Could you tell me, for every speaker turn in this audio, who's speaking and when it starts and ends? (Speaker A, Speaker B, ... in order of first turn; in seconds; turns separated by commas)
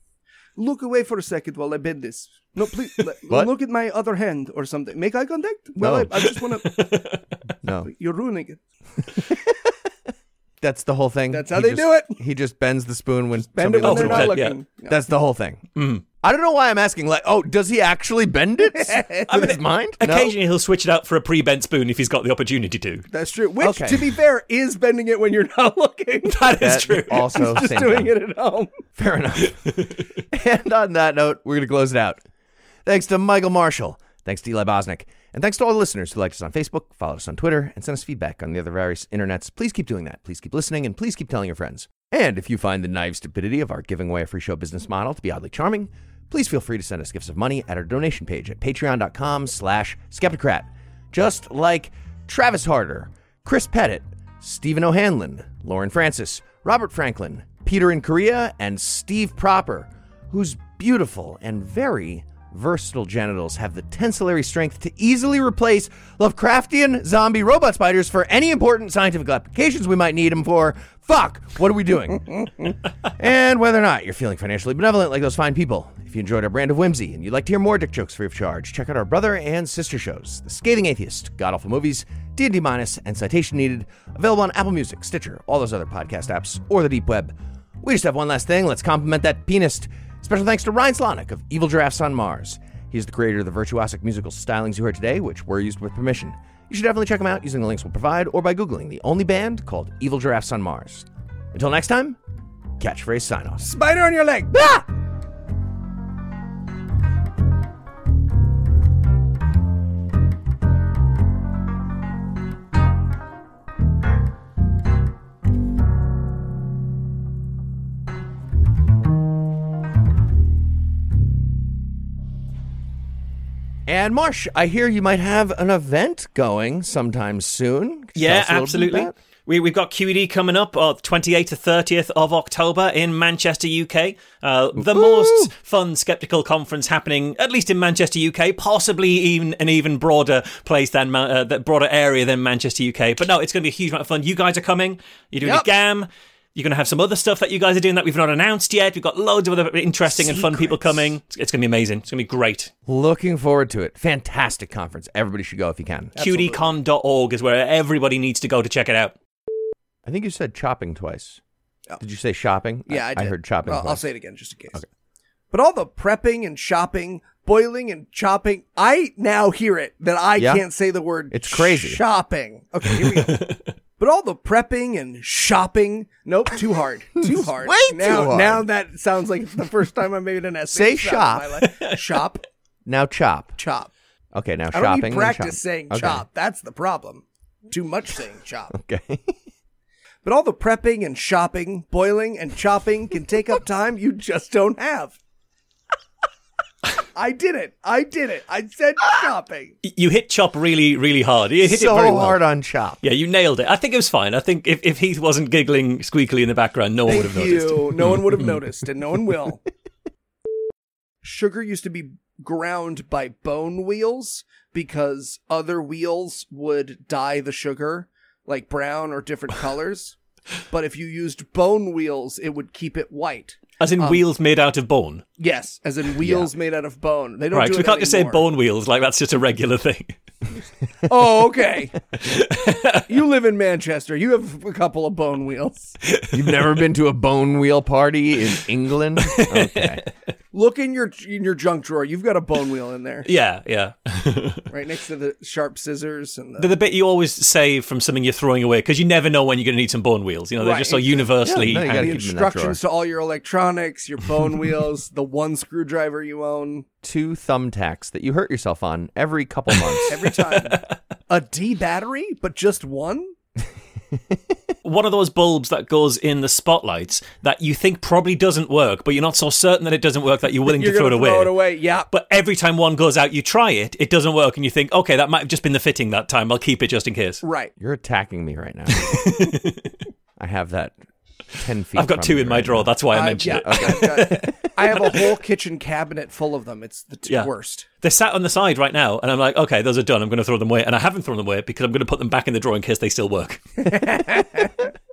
Speaker A: 0.6-6.9, Speaker B: 5.8-6.1, Speaker C: 6.2-7.5, Speaker B: 7.6-7.9, Speaker A: 7.8-8.6, Speaker B: 9.3-9.5, Speaker B: 10.6-15.6, Speaker A: 11.3-12.2, Speaker A: 13.5-14.9, Speaker C: 13.8-14.6, Speaker C: 15.8-16.0, Speaker B: 16.2-20.4, Speaker A: 18.8-19.3, Speaker C: 19.3-23.1, Speaker A: 23.1-28.7, Speaker B: 23.6-24.0, Speaker C: 26.3-27.8, Speaker B: 26.6-28.1, Speaker B: 28.9-32.2, Speaker B: 32.8-72.5, Speaker B: 73.1-102.2, Speaker B: 102.8-103.7, Speaker A: 103.6-104.6, Speaker B: 104.5-104.8, Speaker B: 123.9-129.1, Speaker C: 128.2-152.7, Speaker B: 134.8-135.5, Speaker B: 150.3-150.8, Speaker B: 152.9-156.1, Speaker A: 156.2-156.7, Speaker C: 156.2-159.1, Speaker B: 160.0-161.4, Speaker B: 162.0-164.0, Speaker A: 162.9-164.8, Speaker A: 165.5-173.4, Speaker B: 170.4-170.6, Speaker B: 171.3-172.0, Speaker C: 173.3-173.6, Speaker A: 174.0-182.4, Speaker B: 177.2-178.6, Speaker B: 180.7-181.6, Speaker B: 182.9-183.6, Speaker A: 183.6-183.9, Speaker B: 184.3-186.2, Speaker A: 184.7-188.7, Speaker B: 188.7-189.3, Speaker A: 190.2-195.2, Speaker A: 197.2-199.8, Speaker C: 199.8-202.4, Speaker B: 201.6-203.0, Speaker C: 203.0-208.3, Speaker A: 207.1-209.6, Speaker A: 211.2-220.2, Speaker A: 220.7-224.2, Speaker C: 223.8-225.2, Speaker A: 225.4-228.4, Speaker B: 226.2-226.5, Speaker C: 227.5-230.1, Speaker A: 231.1-232.0, Speaker C: 232.2-233.0, Speaker A: 232.9-236.0, Speaker C: 236.0-236.5, Speaker B: 236.3-240.1, Speaker C: 239.2-240.0, Speaker A: 240.5-243.3, Speaker C: 243.2-244.7, Speaker A: 244.7-246.7, Speaker C: 246.6-252.2, Speaker A: 250.6-256.9, Speaker B: 251.4-252.8, Speaker B: 257.0-260.1, Speaker C: 259.7-260.9, Speaker A: 260.1-263.3, Speaker C: 264.8-271.5, Speaker A: 270.7-272.1, Speaker C: 272.1-277.4, Speaker A: 277.4-277.7, Speaker B: 277.8-279.2, Speaker C: 278.9-279.9, Speaker B: 280.4-281.0, Speaker B: 281.6-283.0, Speaker C: 281.9-285.2, Speaker A: 283.1-287.9, Speaker B: 283.5-284.3, Speaker C: 288.0-294.0, Speaker A: 293.8-294.8